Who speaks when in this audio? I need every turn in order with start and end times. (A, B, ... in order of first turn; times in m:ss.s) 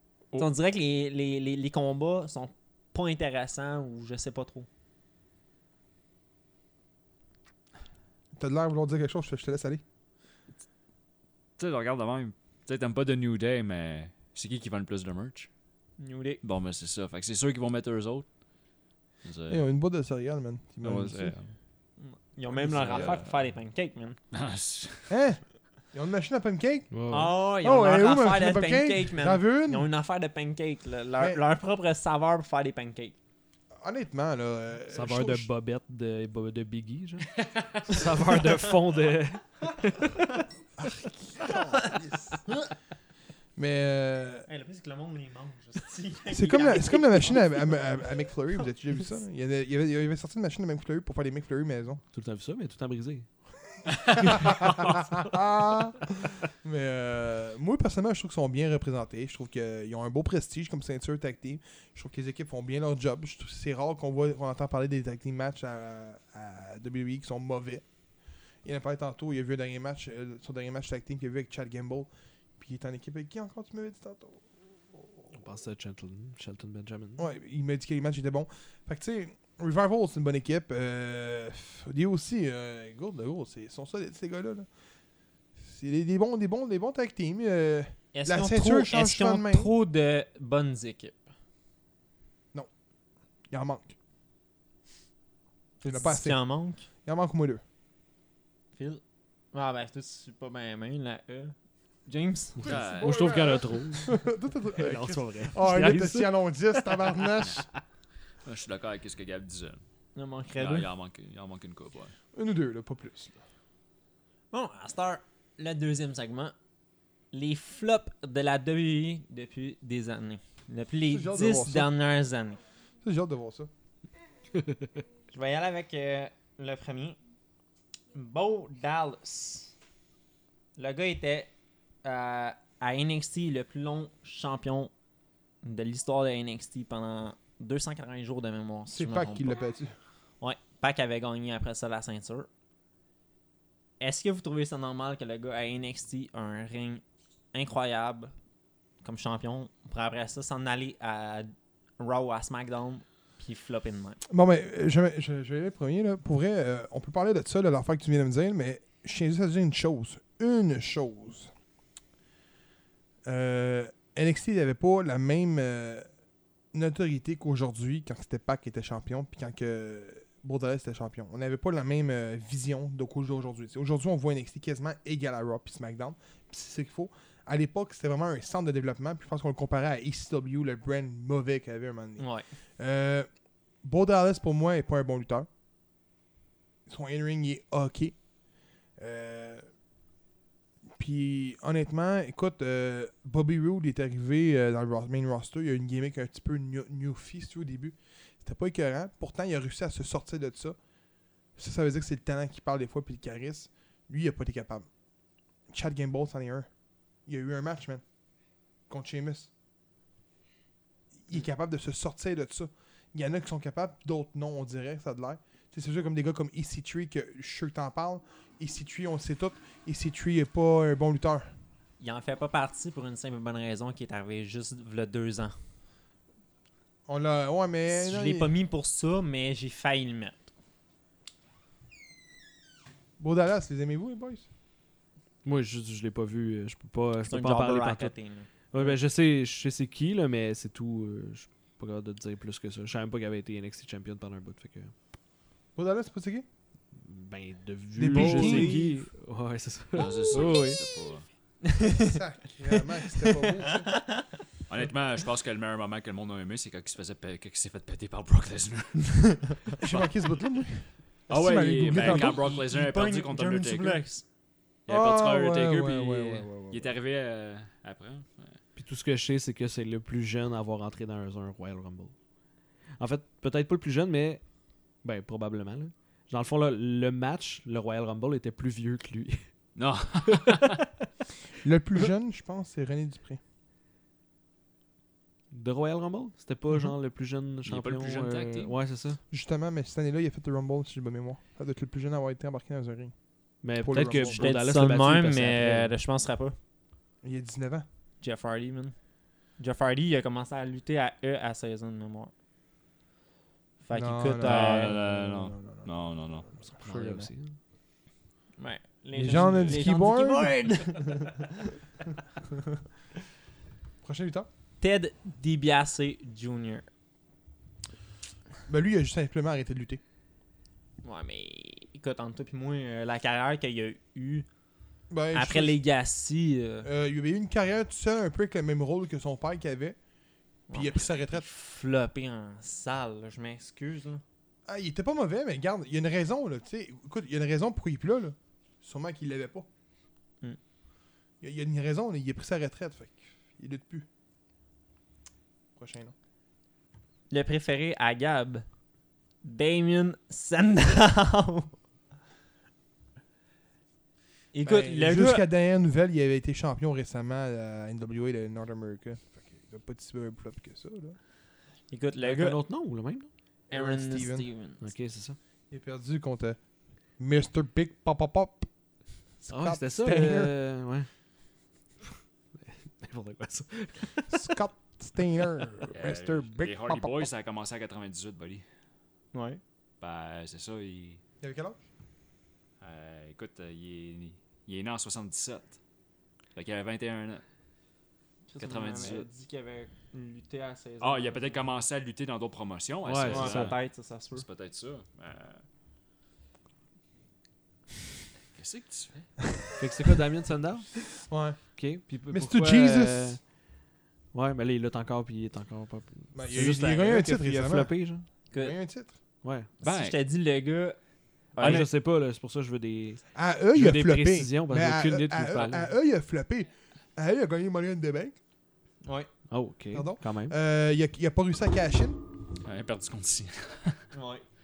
0:00.3-0:04.7 A
0:08.4-0:09.8 B
0:11.6-0:15.5 C
0:16.0-0:16.4 A
0:16.4-0:19.6 C
0:19.5-0:21.4 B
0:20.8-0:21.6 C
0:22.0-0:24.2 A
0:22.7-0:23.5 C
0:22.8-0:23.1 B
0:24.3-0:25.2 C
0:25.1-0:27.0 B
0:26.9-0:27.4 D
0:27.1-0:33.2 A
0:27.5-0:29.9 B
0:33.8-0:35.5 B
0:34.9-0:40.1 D
0:40.8-0:42.5 B
0:43.6-0:44.5 B
0:44.5-0:47.9 A
0:46.3-0:52.0 B
0:52.1-0:53.3 D
0:54.0-0:54.3 C
0:54.2-0:55.1 D
0:54.2-1:07.9 B
1:08.6-1:15.3 B
1:15.3-1:17.2 D
1:17.2-1:24.7 B
1:25.6-1:29.7 B
1:28.1-1:31.2 A
1:33.5-1:34.0 B
1:35.8-1:37.6 B
1:35.9-1:36.9 A
1:38.8-1:39.0 A
1:39.5-1:41.6 A
1:42.1-1:42.6 A
1:42.6-1:44.2 D
1:42.6-1:47.7 B
1:42.6-1:43.3 C
1:44.8-1:46.9 D
1:48.4-1:49.8 C
1:50.2-1:50.9 A
1:50.6-1:52.2 C
1:52.3-1:53.4 B
1:54.5-1:56.6 A
1:57.3-2:02.6 A
2:01.1-2:01.9 B
2:03.0-2:03.7 B
2:05.3-2:07.2 A
2:08.1-2:09.8 A
2:10.8-2:11.5 A
2:12.0-2:14.9 A
2:15.6-2:19.6 A
2:18.9-2:19.9 B
2:20.4-2:22.5 A
2:24.0-2:28.3 A
2:29.0-2:34.2 A
2:34.3-2:41.5 B
2:43.3-2:46.1 B
2:46.7-3:03.3 B
3:02.2-3:02.5 A
3:03.8-3:05.5 B
3:06.9-3:08.3 B
3:08.9-3:09.7 B
3:11.0-3:20.8 B
3:21.6-3:24.9 B
3:25.7-3:26.7 B
3:27.3-3:28.0 B
3:28.9-3:29.5 B
3:31.2-3:41.5 B
3:42.0-3:45.6 A
3:47.1-3:48.5 B
3:47.9-3:50.5 A
3:53.2-3:54.5 B
3:55.4-3:58.2 D
3:57.3-3:58.5 A
3:58.7-4:04.9 D
3:58.7-3:59.0 B
4:05.8-4:06.5 B
4:07.0-4:10.8 D
4:08.0-4:08.9 B
4:08.1-4:08.9 A
4:09.9-4:11.3 C
4:11.7-4:12.2 A
4:12.0-4:14.0 B
4:12.7-4:14.1 A
4:14.7-4:19.8 C
4:19.8-4:22.6 B
4:21.3-4:24.0 C
4:22.0-4:24.3 A
4:24.9-4:28.6 C
4:24.9-4:27.0 B
4:28.8-4:32.1 D
4:33.0-4:34.4 D
4:35.0-4:39.5 D
4:39.8-4:40.8 C
4:41.6-4:43.4 B
4:45.5-4:49.2 D
4:47.6-4:48.8 C
4:49.3-4:54.4 B
4:53.6-4:55.9 D
4:54.3-4:56.6 A
4:57.2-4:57.9 B
4:58.2-4:59.0 A
4:59.6-5:02.3 A
5:03.8-5:05.0 A
5:03.9-5:07.3 B
5:04.4-5:06.5 C
5:06.8-5:07.6 D
5:08.6-5:11.5 A
5:09.2-5:11.1 B
5:14.0-5:14.5 B
5:14.8-5:16.9 A
5:18.7-5:20.0 B
5:21.0-5:24.5 A
5:25.1-5:25.8 B
5:25.3-5:26.9 A
5:26.8-5:30.0 B
5:30.7-5:34.2 A
5:30.7-5:31.5 B
5:34.7-5:39.7 B
5:41.4-5:44.1 B
5:45.8-5:46.1 B
5:47.3-5:48.7 A
5:49.4-5:51.8 A
5:54.5-5:55.5 A
5:54.6-6:01.2 B
6:01.9-6:02.6 A
6:02.2-6:03.3 D
6:03.7-6:04.5 B
6:03.7-6:04.8 A
6:04.8-6:05.4 D
6:05.7-6:08.7 B
6:09.4-6:10.6 B
6:09.5-6:11.1 D
6:12.6-6:14.6 D
6:14.3-6:17.3 B
6:15.9-6:18.6 C
6:19.3-6:19.6 A
6:20.0-6:21.2 C
6:21.4-6:21.8 B
6:22.8-6:25.8 C
6:26.6-6:27.4 C
6:28.5-6:31.6 A
6:28.6-6:29.3 C
6:31.0-6:35.6 C
6:33.0-6:33.7 D
6:33.3-6:34.4 A
6:38.5-6:39.3 C
6:39.8-6:41.1 D
6:41.1-6:41.7 B
6:41.8-6:43.6 D
6:42.2-6:43.4 B
6:44.3-6:48.3 D
6:46.3-6:49.2 B
6:48.5-6:48.8 A
6:49.4-6:49.7 D
6:49.8-6:51.0 A
6:49.8-6:50.2 C
6:51.5-6:51.9 A
6:51.6-6:51.9 B
6:51.6-6:55.9 D
6:53.3-6:58.4 B
6:59.0-6:59.3 A
6:59.5-7:00.6 D
6:59.9-7:02.2 B
7:02.6-7:04.1 C
7:04.1-7:04.4 A